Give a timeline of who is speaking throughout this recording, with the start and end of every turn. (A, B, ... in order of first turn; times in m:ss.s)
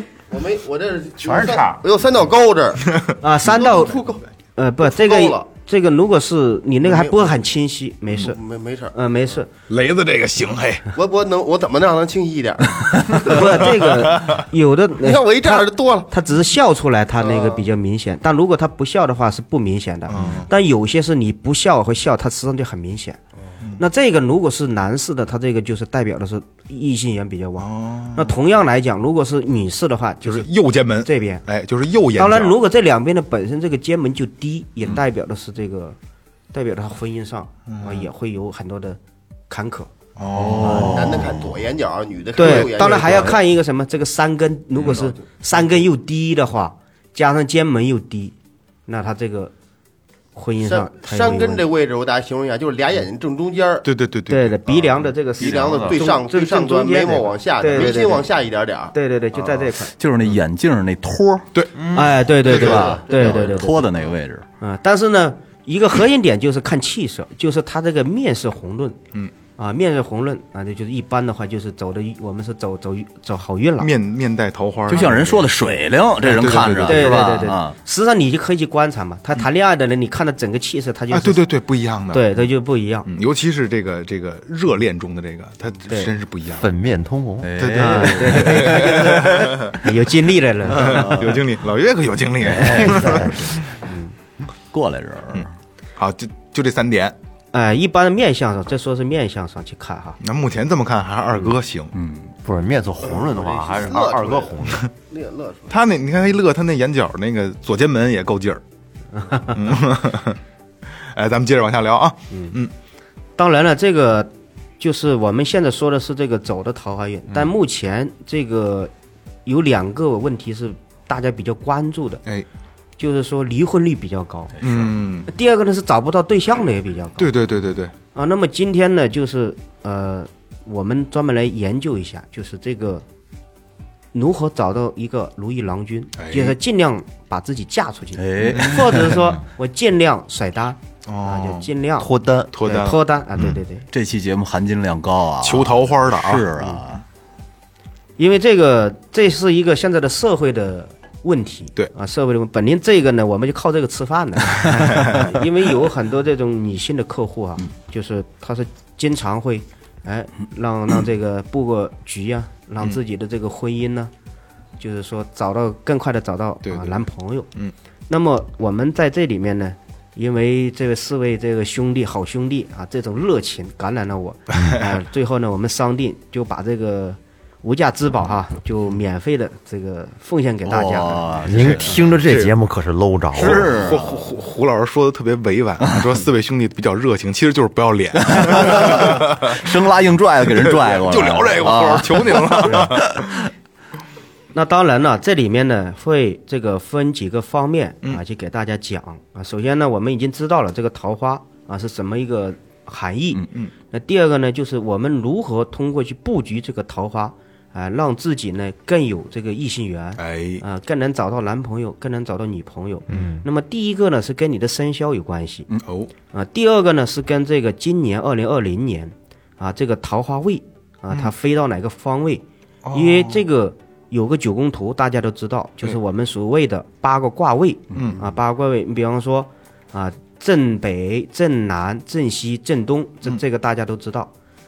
0:00.3-0:02.8 A
0:03.2-0:04.0 B
0:03.4-0:04.3 A
0:04.6-0:08.4 B
0:04.8-0:05.5 A
0:06.8-0:07.4 A
0:08.2-0:08.9 A
0:08.9-0:09.5 B
0:09.7-0:10.9 C
0:10.9-0:13.4 A
0:13.2-0:23.2 B
0:13.2-0:14.4 C
0:15.0-0:16.1 A
0:17.2-0:17.6 A
0:20.1-0:20.5 C
0:23.8-0:30.5 B
0:27.6-0:28.3 C
0:30.2-0:32.6 C
0:31.0-0:31.4 B
0:32.2-0:36.0 B
0:36.5-0:39.0 B
0:37.7-0:38.1 C
0:39.5-0:39.9 B
0:40.2-0:41.4 C
0:40.3-0:41.6 D
0:40.8-0:43.4 A
0:42.4-0:48.3 B
0:44.8-0:45.2 A
0:48.9-0:49.5 B
0:50.3-0:51.6 B
0:50.6-0:53.8 A
0:53.8-0:55.0 C
0:54.3-0:58.3 B
0:55.4-0:58.9 A
0:55.5-0:55.9 D
0:58.9-0:59.9 B
1:00.0-1:01.5 D
1:01.5-1:01.8 C
1:01.9-1:03.9 B
1:02.4-1:03.7 A
1:02.5-1:02.8 C
1:03.2-1:04.4 D
1:04.6-1:09.0 B
1:09.6-1:13.9 B
1:13.8-1:15.4 C
1:14.9-1:17.7 D
1:16.2-1:17.4 C
1:16.7-1:21.4 B
1:21.1-1:22.3 C
1:22.1-1:23.1 B
1:23.0-1:26.7 C
1:26.6-1:27.5 E
1:27.4-1:29.3 D
1:27.6-1:29.8 C
1:27.8-1:31.4 B
1:30.7-1:33.7 C
1:30.7-1:31.4 D
1:32.4-1:33.2 D
1:32.6-1:33.5 E
1:33.8-1:34.1 B
1:34.7-1:35.5 D
1:36.0-1:37.1 C
1:37.5-1:40.2 B
1:40.2-1:41.9 C
1:41.9-1:42.3 D
1:42.4-1:44.9 E
1:43.1-1:45.7 A
1:45.7-1:48.6 C
1:49.1-1:49.6 B
1:49.5-1:50.4 C
1:51.1-1:52.7 C
1:52.3-1:52.6 B
1:53.4-1:58.9 B
1:59.4-2:02.2 B
2:03.0-2:04.5 B
2:04.6-2:04.9 D
2:04.6-2:05.3 C
2:05.3-2:07.3 B
2:07.2-2:07.9 C
2:08.1-2:13.0 B
2:14.1-2:22.1 B
2:16.2-2:16.6 C
2:18.2-2:19.2 D
2:21.0-2:21.7 C
2:22.0-2:22.5 E
2:22.5-2:23.0 C
2:22.6-2:23.9 B
2:23.4-2:27.0 D
2:25.4-2:26.5 C
2:28.2-2:44.1 B
2:34.7-2:35.4 C
2:44.8-2:47.5 B
2:46.6-2:47.0 C
2:48.1-3:02.0 B
2:54.6-2:54.8 C
3:00.6-3:02.0 D
3:01.4-3:03.9 E
3:02.2-3:02.5 C
3:03.3-3:04.2 D
3:03.4-3:09.7 C
3:08.2-3:13.4 D
3:10.5-3:13.4 C
3:14.5-3:35.7 B
3:30.2-3:30.6 C
3:33.1-3:33.4 E
3:35.7-3:36.1 C
3:36.3-3:54.3 B
3:42.8-3:43.4 C
3:47.9-3:48.2 C